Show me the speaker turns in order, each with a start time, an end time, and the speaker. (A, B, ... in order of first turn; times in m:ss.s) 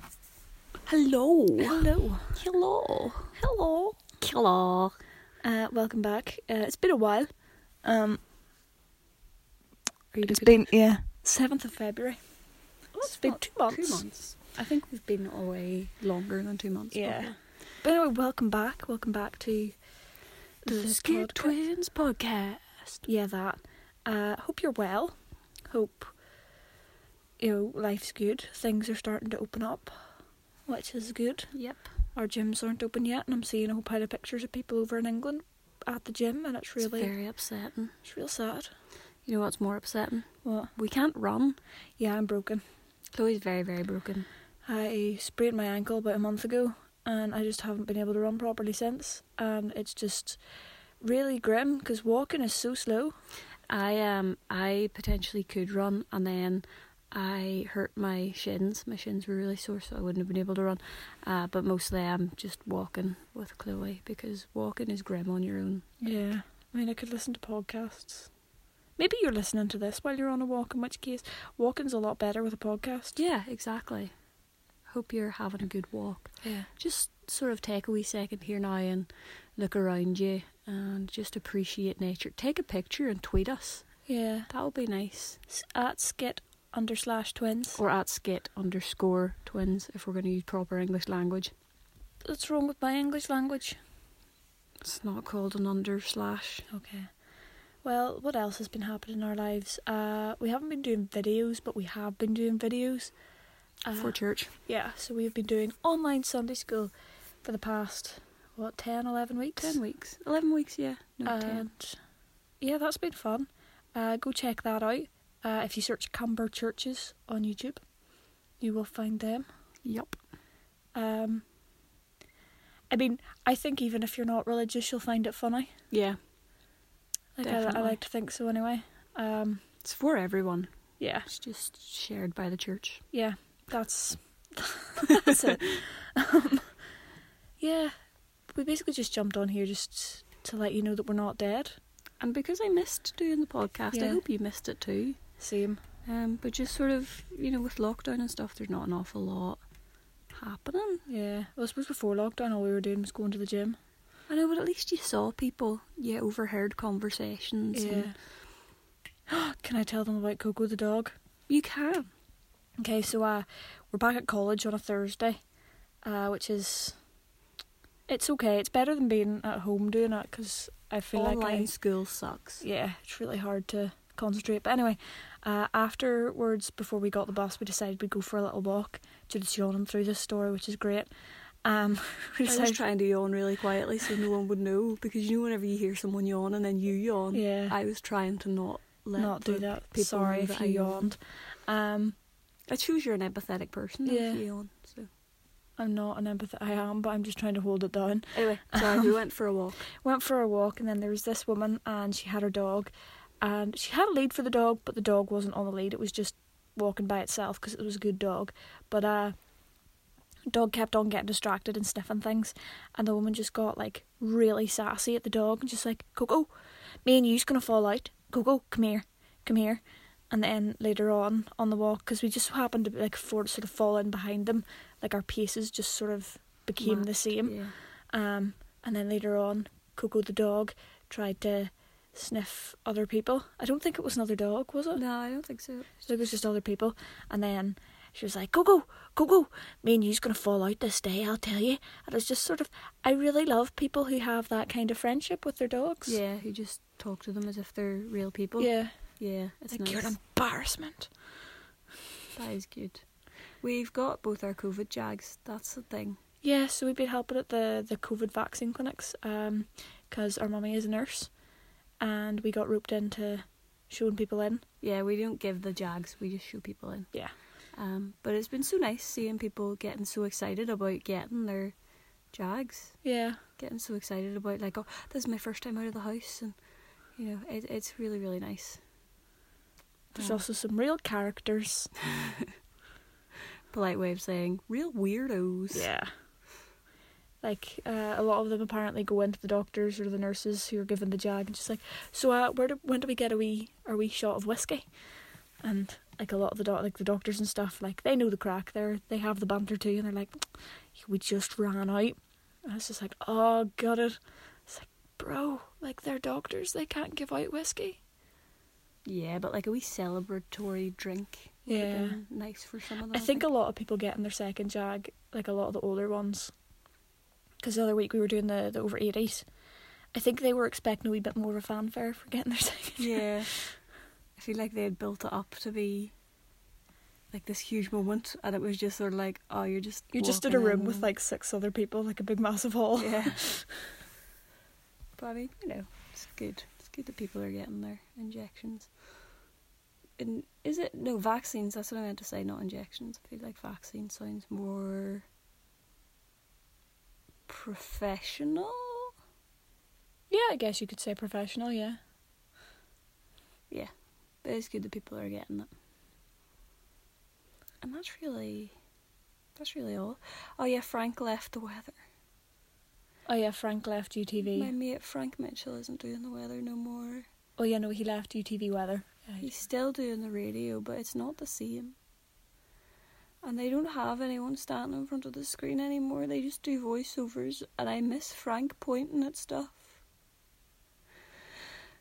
0:00.9-0:03.4 A
0:01.6-0:02.4 B
0:03.4-0:04.0 B
0:04.2-0:05.0 A
0:05.4-0:07.3 B
0:07.8-0:08.2 B
0:10.1-0:10.6 A
0:10.2-0:12.4 B
0:12.9-0:17.4 A
0:13.0-0:14.0 B
0:16.9-0:19.8 B
0:20.6-0:21.6 B
0:20.7-0:23.0 A
0:23.0-0:25.2 B
0:25.7-0:26.1 B
0:27.4-0:30.0 B
0:30.7-0:31.6 B
0:31.5-0:31.9 A
0:32.1-0:37.2 B
0:36.8-0:38.0 A
0:38.0-0:38.7 B
0:39.2-0:41.6 A
0:40.4-0:40.7 B
0:42.0-0:42.6 B
0:43.1-0:44.3 A
0:44.6-0:50.4 B
0:51.0-0:53.2 B
0:53.7-1:05.8 A
1:06.0-1:08.3 B
1:09.0-1:13.2 B
1:13.2-1:14.1 A
1:14.9-1:25.4 A
1:16.4-1:16.7 B
1:24.1-1:24.5 B
1:25.5-1:27.8 B
1:27.8-1:31.5 A
1:32.2-1:33.8 B
1:34.8-1:36.7 A
1:36.7-1:37.1 B
1:37.8-1:43.1 B
1:43.8-1:46.9 B
1:44.0-1:44.5 A
1:47.4-1:49.8 B
1:49.6-1:51.7 A
1:51.2-1:52.0 B
1:52.6-1:57.9 B
1:58.6-1:59.5 B
1:59.8-2:00.2 A
2:00.9-2:01.4 B
2:02.9-2:05.7 B
2:05.9-2:06.2 A
2:07.4-2:09.6 B
2:07.4-2:08.0 A
2:09.8-2:10.7 A
2:11.0-2:11.3 B
2:11.2-2:13.0 A
2:13.1-2:16.7 B
2:17.6-2:17.9 B
2:18.5-2:21.8 B
2:22.2-2:25.2 A
2:23.9-2:24.2 B
2:25.4-2:25.8 B
2:26.0-2:29.6 A
2:30.3-2:31.0 A
2:31.1-2:33.8 B
2:34.3-2:38.1 A
2:37.7-2:38.2 B
2:39.3-2:41.2 B
2:41.5-2:42.1 A
2:42.8-2:45.4 B
2:46.0-2:47.0 B
2:48.1-2:51.7 B
2:51.1-2:52.6 A
2:52.6-3:01.1 B
3:01.6-3:02.8 B
3:02.5-3:11.1 A
3:07.3-3:07.8 B
3:09.2-3:12.2 B
3:12.7-3:15.1 A
3:14.0-3:14.4 B
3:15.8-3:19.1 B
3:18.3-3:19.8 A
3:20.0-3:29.4 B
3:30.5-3:36.5 B
3:37.0-3:47.6 B
3:46.8-3:47.7 A
3:48.1-3:55.0 B
3:54.9-3:56.0 A
3:56.0-4:06.2 B
4:06.1-4:10.1 A
4:08.6-4:09.0 B
4:09.7-4:11.1 B
4:12.4-4:16.2 A
4:16.4-4:21.4 B
4:22.0-4:24.6 B
4:24.8-4:31.7 A
4:32.3-4:36.6 A
4:33.0-4:33.4 B
4:37.2-4:38.8 A
4:40.1-4:41.9 B
4:40.2-4:40.4 A
4:42.1-4:42.5 A
4:43.7-4:45.9 A
4:45.7-4:46.1 B
4:47.4-4:54.9 B
4:55.6-5:08.0 B
5:09.0-5:13.4 A
5:11.7-5:12.2 B
5:13.1-5:16.5 B
5:17.6-5:19.5 B
5:20.1-5:23.6 B
5:23.0-5:23.8 A
5:24.4-5:26.1 A
5:27.3-5:31.1 A
5:30.1-5:33.8 B
5:33.0-5:33.5 A
5:35.2-5:38.9 A
5:40.2-5:45.3 A
5:47.5-5:49.1 A
5:50.3-5:52.0 B
5:54.4-5:55.7 A
5:57.8-5:58.7 A
5:59.6-6:02.0 A
6:03.3-6:04.7 B
6:04.5-6:07.3 A
6:07.6-6:09.5 B
6:09.4-6:12.0 A
6:13.4-6:19.9 A